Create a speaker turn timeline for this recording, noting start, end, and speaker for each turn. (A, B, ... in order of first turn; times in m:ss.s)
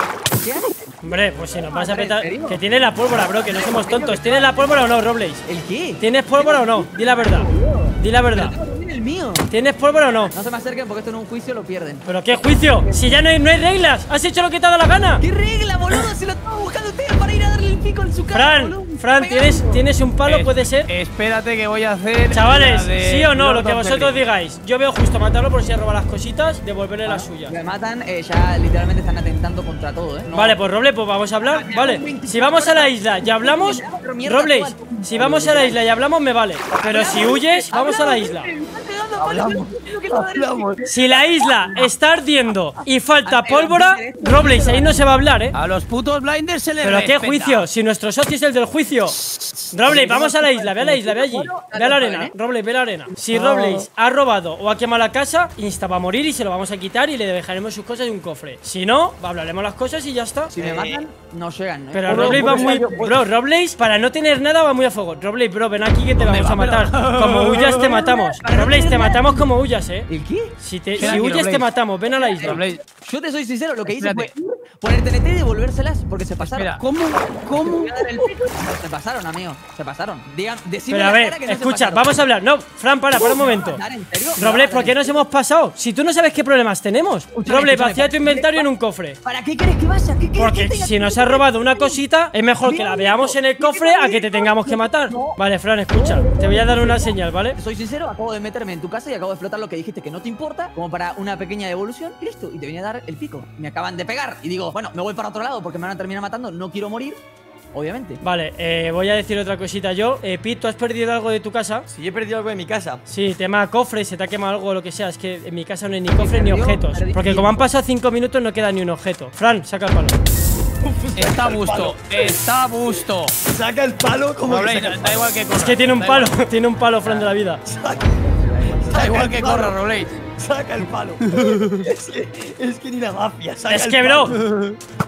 0:00.3-0:04.9 A
0:01.0-0:05.4 B
0:05.4-0:09.5 A
0:06.0-0:08.6 B
0:09.5-0:10.3 B
0:10.3-0:12.1 A
0:12.0-0:15.2 B
0:15.2-0:19.8 A
0:18.3-0:20.9 B
0:20.2-0:24.1 C
0:22.3-0:27.5 B
0:27.0-0:30.6 A
0:30.3-0:38.5 B
0:31.4-0:35.8 A
0:36.8-0:41.9 A
0:39.2-0:40.8 D
0:40.8-0:45.5 B
0:43.2-0:45.1 A
0:45.5-0:47.6 C
0:46.8-0:49.2 B
0:49.7-1:00.5 B
0:49.8-0:52.3 A
0:53.2-0:53.8 A
1:00.5-1:03.1 A
1:00.5-1:01.0 D
1:01.9-1:12.6 B
1:02.1-1:03.2 D
1:06.2-1:07.9 C
1:07.8-1:09.5 A
1:10.1-1:11.4 A
1:11.0-1:11.7 C
1:12.1-1:16.8 A
1:12.4-1:12.8 C
1:13.8-1:14.3 C
1:16.4-1:18.0 C
1:17.4-1:22.1 A
1:20.9-1:23.8 B
1:23.1-1:25.2 A
1:24.4-1:29.2 B
1:27.3-1:28.7 A
1:29.2-1:32.0 A
1:30.4-1:37.6 B
1:32.6-1:35.4 A
1:35.9-1:47.2 A
1:47.7-1:48.2 A
1:48.2-1:51.9 B
1:51.9-1:53.0 D
1:53.1-2:00.2 B
1:56.2-1:57.6 A
2:01.1-2:03.4 C
2:01.2-2:02.1 D
2:03.4-2:05.3 D
2:04.5-2:06.4 C
2:05.6-2:07.6 B
2:07.6-2:14.5 D
2:08.0-2:08.9 A
2:08.9-2:10.1 C
2:11.2-2:11.9 C
2:13.7-2:14.4 B
2:14.4-2:14.8 C